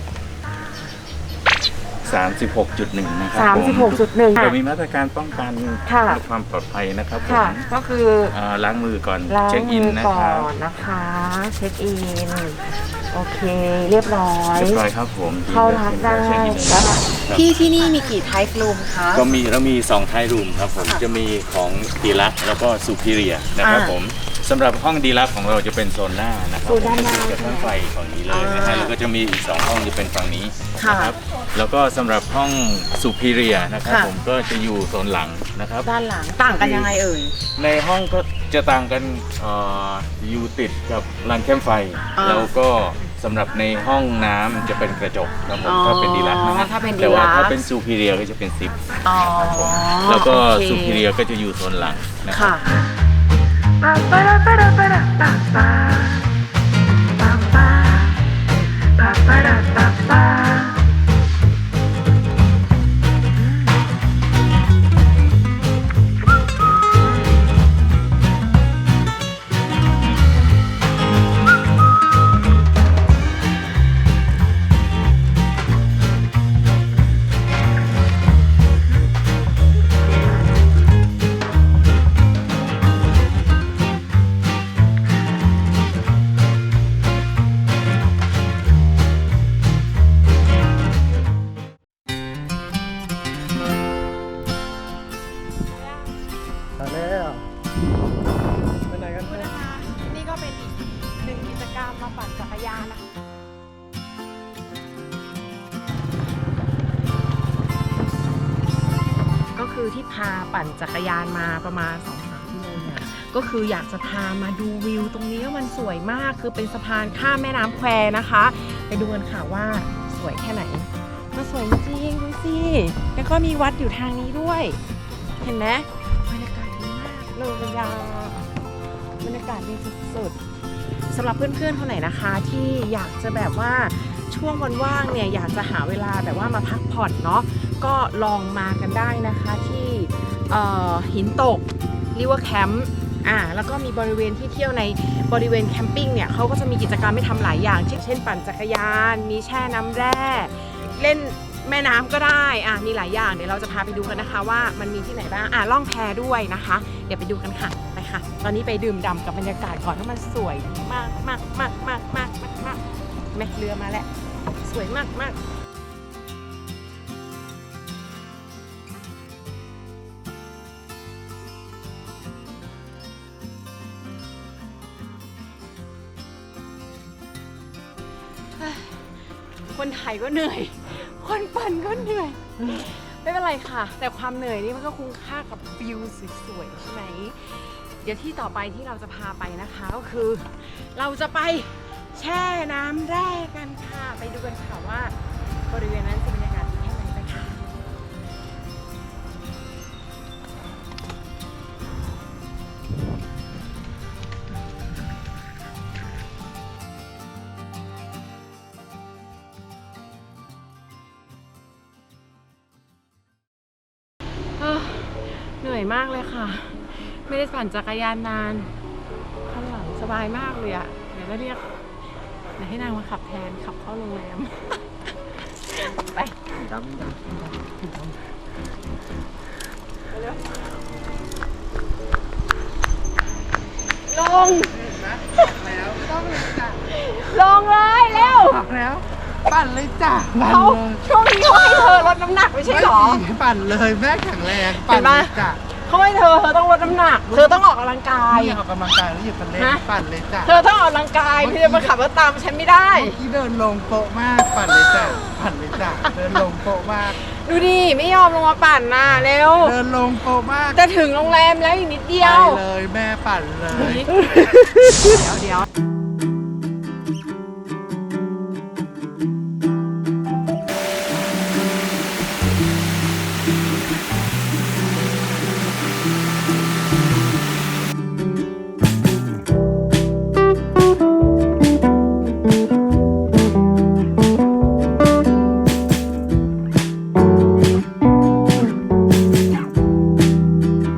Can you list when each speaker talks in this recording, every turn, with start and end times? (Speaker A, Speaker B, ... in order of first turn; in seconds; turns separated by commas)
Speaker A: 2.0-7.6, Speaker B: 3.3-4.5, Speaker B: 5.8-6.2, Speaker B: 7.2-8.3, Speaker A: 8.3-10.5, Speaker B: 9.3-14.8, Speaker A: 14.5-17.4, Speaker B: 15.5-19.2, Speaker A: 19.1-35.9, Speaker B: 23.6-23.9, Speaker B: 26.6-27.7, Speaker B: 28.3-28.9, Speaker B: 30.8-31.2, Speaker B: 33.8-34.1, Speaker B: 35.8-37.4, Speaker A: 36.5-36.9, Speaker A: 37.5-52.6, Speaker B: 42.1-42.5, Speaker B: 45.6-47.6, Speaker B: 49.0-51.0, Speaker B: 52.3-52.8, Speaker B: 53.8-56.1, Speaker B: 57.6-58.0, Speaker B: 59.0-60.5, Speaker C: 97.0-97.3, Speaker B: 98.9-103.0, Speaker B: 109.5-124.8, Speaker B: 125.4-128.6, Speaker B: 129.2-130.4, Speaker B: 131.1-164.1, Speaker B: 164.6-165.4, Speaker B: 178.6-179.1, Speaker B: 179.6-195.2, Speaker B: 195.7-197.7, Speaker B: 214.6-218.7, Speaker B: 219.4-221.8, Speaker B: 222.6-225.0, Speaker B: 225.5-228.1, Speaker B: 234.1-235.6, Speaker C: 235.5-236.8, Speaker B: 236.8-238.6, Speaker C: 238.2-241.0, Speaker B: 240.3-243.2, Speaker C: 242.7-245.6, Speaker B: 244.4-248.6, Speaker C: 247.3-247.6, Speaker C: 248.3-250.5, Speaker B: 249.5-249.8, Speaker B: 250.4-253.2, Speaker C: 251.4-251.9, Speaker C: 252.9-257.1, Speaker B: 254.9-256.4, Speaker B: 257.0-259.8, Speaker C: 259.6-260.8, Speaker B: 260.7-262.6, Speaker C: 262.2-264.0, Speaker B: 263.7-264.2, Speaker B: 265.0-265.6